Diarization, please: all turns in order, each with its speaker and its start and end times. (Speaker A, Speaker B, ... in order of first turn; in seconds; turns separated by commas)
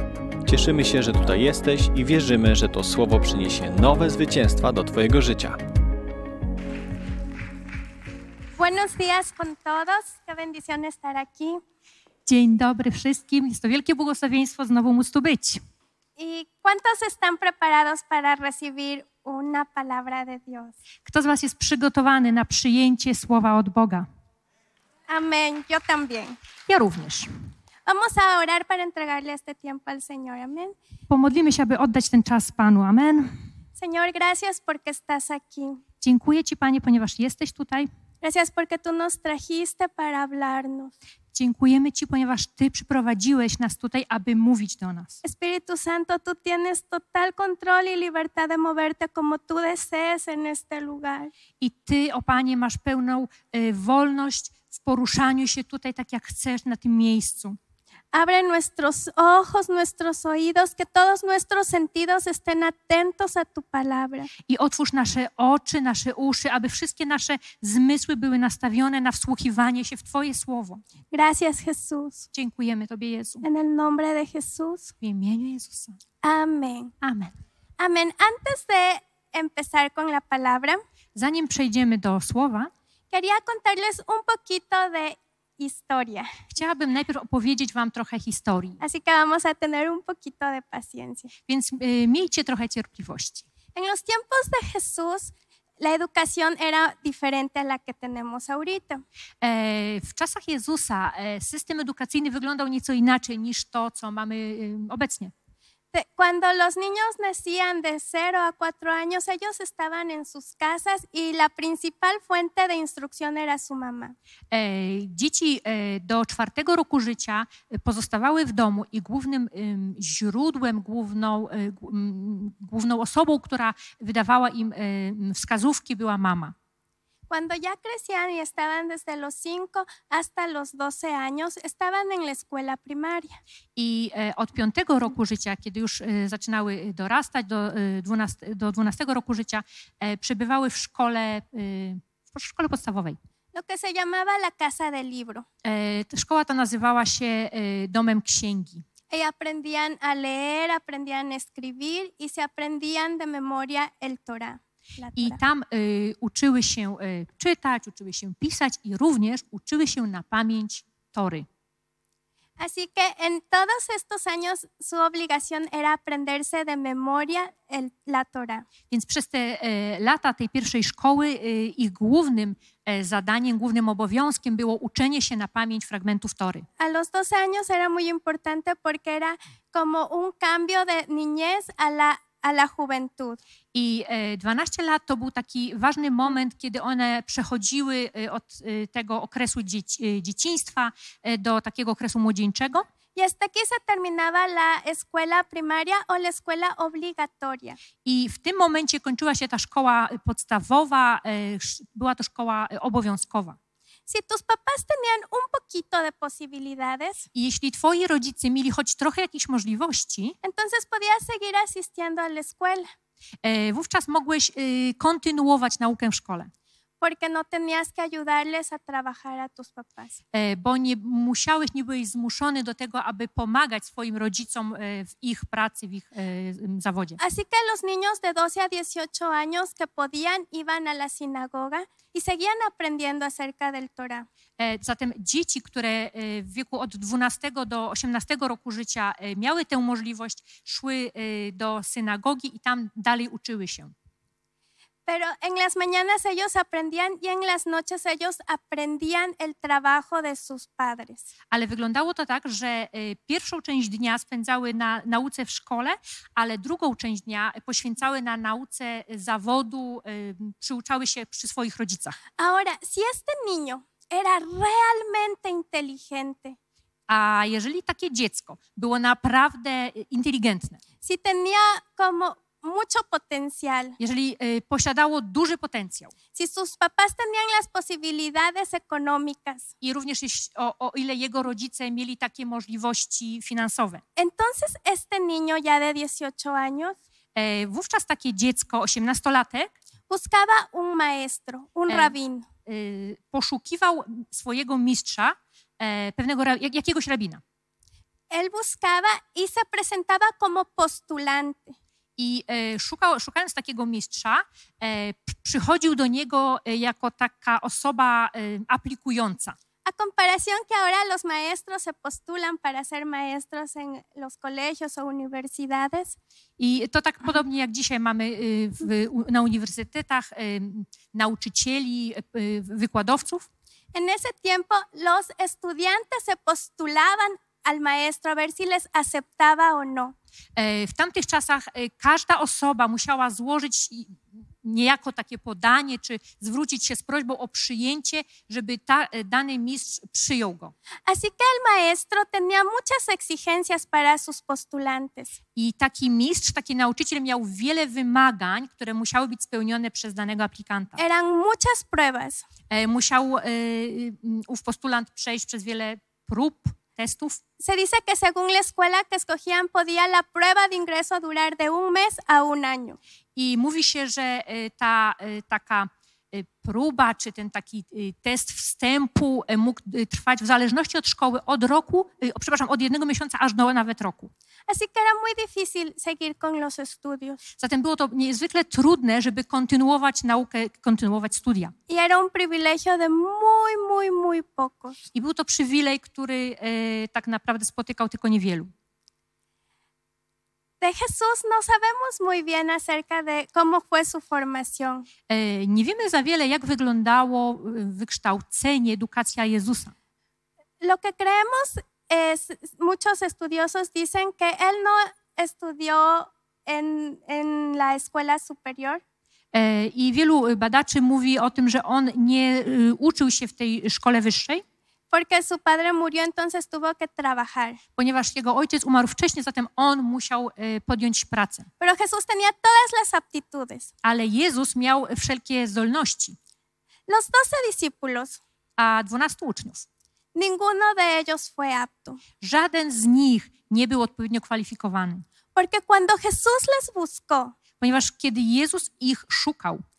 Speaker A: 0.5-5.6, Speaker B: 8.6-11.6, Speaker C: 12.2-15.6, Speaker B: 16.2-20.7, Speaker C: 21.1-24.1, Speaker B: 25.1-26.4, Speaker C: 26.7-27.3, Speaker B: 27.9-30.8, Speaker C: 31.1-33.3, Speaker B: 33.8-35.8, Speaker C: 36.0-37.9, Speaker B: 38.2-40.9, Speaker C: 41.3-45.2, Speaker B: 45.2-51.3, Speaker C: 51.6-57.6, Speaker B: 58.1-64.3, Speaker C: 64.5-70.8, Speaker B: 71.1-72.3, Speaker C: 72.3-73.5, Speaker B: 73.4-74.9, Speaker C: 75.0-76.0, Speaker B: 76.2-76.9, Speaker C: 77.0-77.4, Speaker B: 77.8-80.8, Speaker C: 81.2-82.7, Speaker B: 83.1-86.3, Speaker C: 86.5-88.8, Speaker B: 88.8-91.3, Speaker C: 91.5-93.5, Speaker B: 93.8-99.0, Speaker C: 99.4-105.3, Speaker B: 105.9-114.2, Speaker C: 114.5-126.5, Speaker B: 127.3-133.4, Speaker C: 133.8-143.2, Speaker B: 143.5-145.4, Speaker C: 145.6-148.8, Speaker B: 149.1-155.4, Speaker C: 155.2-161.4, Speaker B: 162.6-168.7, Speaker C: 168.9-176.7, Speaker B: 176.8-183.4, Speaker C: 183.7-192.8, Speaker B: 193.1-197.8, Speaker C: 198.0-203.6, Speaker B: 204.1-207.3, Speaker C: 207.3-210.3, Speaker B: 210.4-212.9, Speaker C: 213.4-216.5, Speaker B: 217.0-220.1, Speaker C: 220.3-227.2, Speaker B: 227.2-234.3, Speaker C: 234.6-243.9, Speaker B: 245.1-251.2, Speaker C: 251.5-262.2, Speaker B: 262.4-266.6, Speaker C: 267.1-270.8, Speaker B: 271.0-274.0, Speaker C: 274.0-276.1, Speaker B: 276.4-279.7, Speaker C: 279.8-284.0, Speaker B: 284.2-287.0, Speaker C: 287.4-289.7, Speaker B: 290.1-292.5, Speaker C: 291.9-292.1, Speaker C: 292.7-297.4, Speaker B: 298.3-301.8, Speaker C: 302.2-309.6, Speaker B: 309.9-316.2, Speaker C: 316.6-323.5, Speaker B: 323.9-330.1, Speaker C: 330.6-340.7, Speaker B: 341.1-345.3, Speaker C: 345.6-351.0, Speaker B: 351.0-352.5, Speaker C: 352.7-357.4, Speaker B: 357.6-363.0, Speaker C: 363.4-374.3, Speaker B: 374.7-377.4, Speaker C: 377.6-381.7, Speaker B: 381.9-385.0, Speaker C: 385.1-388.7, Speaker B: 390.8-395.1, Speaker C: 395.3-399.9, Speaker B: 400.8-409.0, Speaker C: 409.5-414.6, Speaker B: 415.1-417.8, Speaker C: 418.0-421.7, Speaker B: 421.8-423.9, Speaker C: 424.0-426.4, Speaker B: 427.1-428.4, Speaker C: 428.8-429.9, Speaker B: 430.4-432.2, Speaker C: 432.4-435.2, Speaker B: 435.6-437.6, Speaker C: 437.8-439.8